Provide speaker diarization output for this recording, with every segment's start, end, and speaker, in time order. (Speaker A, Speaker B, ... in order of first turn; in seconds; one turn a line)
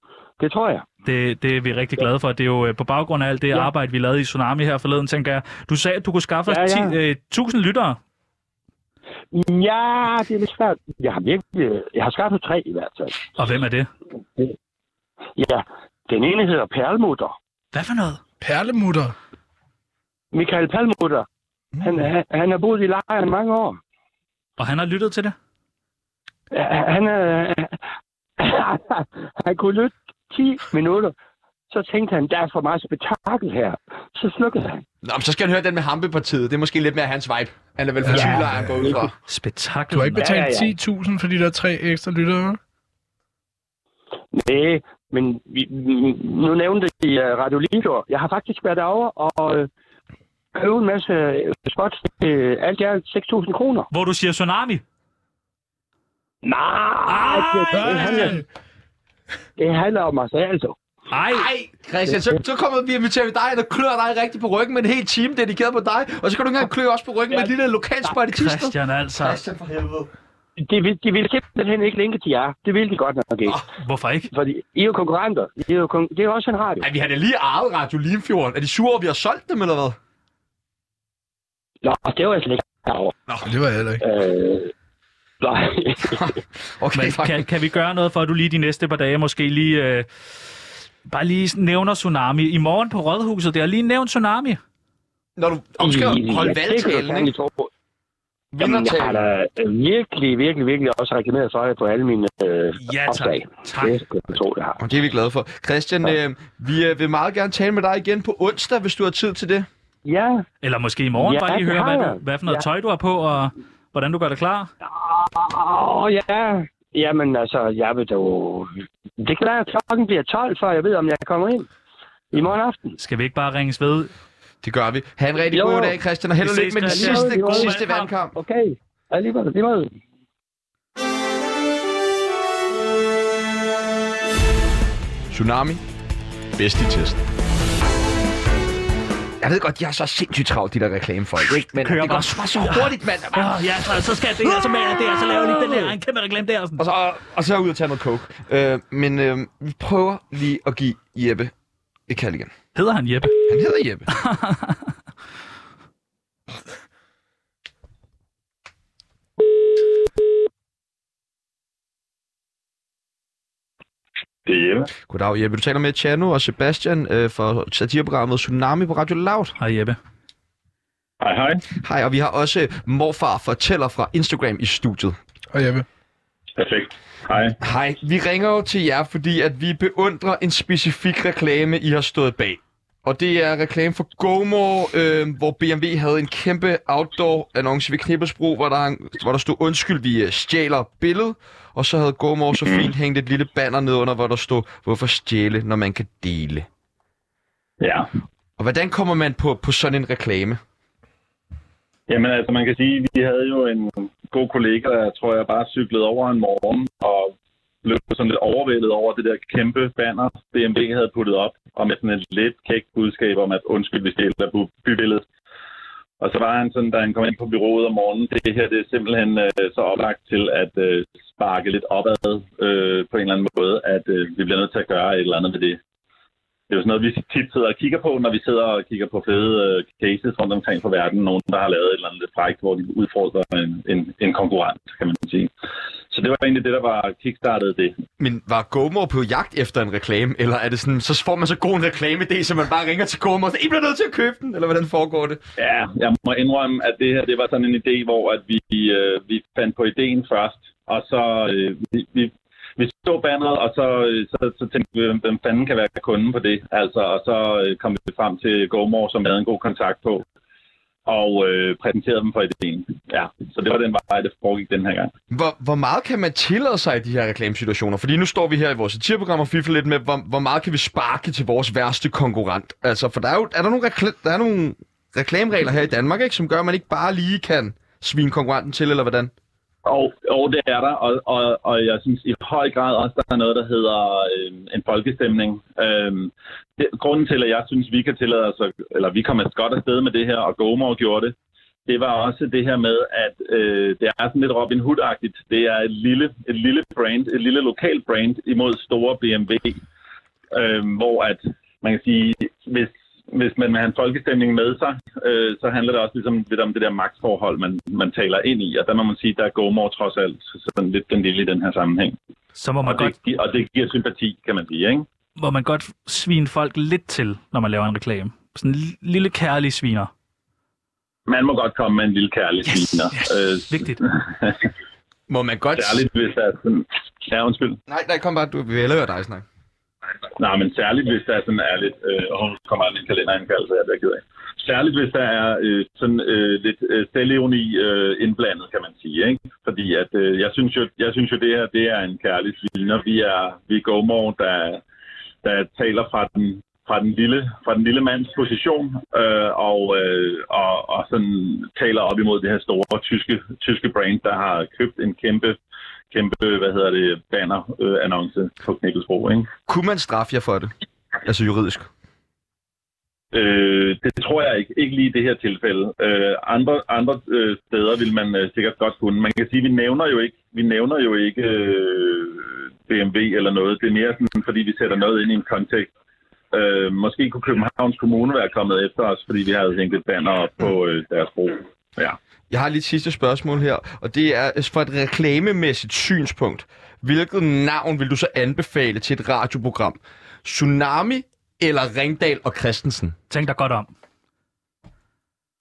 Speaker A: 0.4-0.9
Speaker B: 1.1-8.0
Speaker A: 6.5-7.0
Speaker A: 9.3-13.2
Speaker B: 13.4-13.9
Speaker A: 15.4-17.4
Speaker B: 17.7-18.2
Speaker C: 18.4-19.2
Speaker A: 20.3-21.3
Speaker C: 21.8-22.1
Speaker A: 21.8-23.8
Speaker B: 24.6-25.3
Speaker A: 26.5-27.8
Speaker A: 28.4-31.1
Speaker A: 31.7-34.8
Speaker D: 35.0-39.1
Speaker C: 38.0-39.0
Speaker A: 38.1-39.1
Speaker B: 39.3-40.3
Speaker C: 39.9-42.6
Speaker A: 40.2-40.7
Speaker A: 44.3-49.7
Speaker A: 50.5-53.9
Speaker B: 53.9-54.8
Speaker A: 56.4-58.4
Speaker B: 57.1-58.4
Speaker C: 57.9-58.4
Speaker A: 59.6-60.8
Speaker B: 61.1-61.5
Speaker D: 61.3-70.1
Speaker A: 62.1-62.4
Speaker B: 68.3-69.4
Speaker A: 70.6-73.6
Speaker B: 73.8-74.3
Speaker A: 74.3-76.9
Speaker D: 76.8-80.0
Speaker A: 81.8-83.1
Speaker C: 83.4-84.0
Speaker A: 84.0-84.7
Speaker A: 85.4-86.3
Speaker D: 86.1-87.5
Speaker B: 87.0-90.1
Speaker B: 91.1-94.6
Speaker D: 95.4-97.3
Speaker A: 95.8-97.7
Speaker D: 98.5-99.2
Speaker A: 98.6-104.8
Speaker B: 102.8-104.0
Speaker D: 104.8-109.7
Speaker A: 110.0-110.5
Speaker B: 110.6-114.7
Speaker A: 111.2-112.7
Speaker A: 114.8-121.7
Speaker A: 122.3-123.0
Speaker B: 123.0-124.1
Speaker D: 124.6-128.4
Speaker A: 125.5-126.0
Speaker B: 126.4-128.1
Speaker A: 126.9-127.8
Speaker A: 128.3-130.0
Speaker D: 135.3-135.8
Speaker D: 136.6-137.2
Speaker D: 139.4-143.6
Speaker B: 141.5-146.8
Speaker D: 146.8-151.5
Speaker D: 152.1-152.5
Speaker B: 152.8-153.4
Speaker D: 153.5-154.1
Speaker B: 154.1-154.8
Speaker E: 164.5-164.9
Speaker D: 165.1-169.6
Speaker B: 169.6-170.0
Speaker E: 171.2-171.6
Speaker D: 171.8-175.2
Speaker C: 175.5-175.9
Speaker E: 176.6-177.6
Speaker D: 177.6-196.7
Speaker E: 197.8-198.1
Speaker D: 198.6-200.6
Speaker E: 202.1-207.3
Speaker E: 207.8-215.3
Speaker E: 216.2-225.8
Speaker E: 226.7-235.5
Speaker E: 236.1-238.0
Speaker D: 238.2-245.4
Speaker E: 245.6-260.2
Speaker E: 261.1-265.1
Speaker D: 265.3-279.3
Speaker E: 279.9-291.3
Speaker E: 291.9-299.8
Speaker E: 300.5-312.2
Speaker B: 312.6-313.1
Speaker E: 312.8-315.1
Speaker B: 315.4-320.1
Speaker E: 321.3-324.7
Speaker B: 322.8-323.2
Speaker B: 323.7-324.0
Speaker D: 325.3-326.1
Speaker E: 325.8-327.8
Speaker D: 327.9-329.4
Speaker E: 330.4-344.8
Speaker E: 345.4-355.6
Speaker E: 356.1-359.5
Speaker D: 359.7-361.9
Speaker E: 363.3-375.9
Speaker E: 376.5-382.2
Speaker D: 382.5-393.1
Speaker B: 393.3-393.9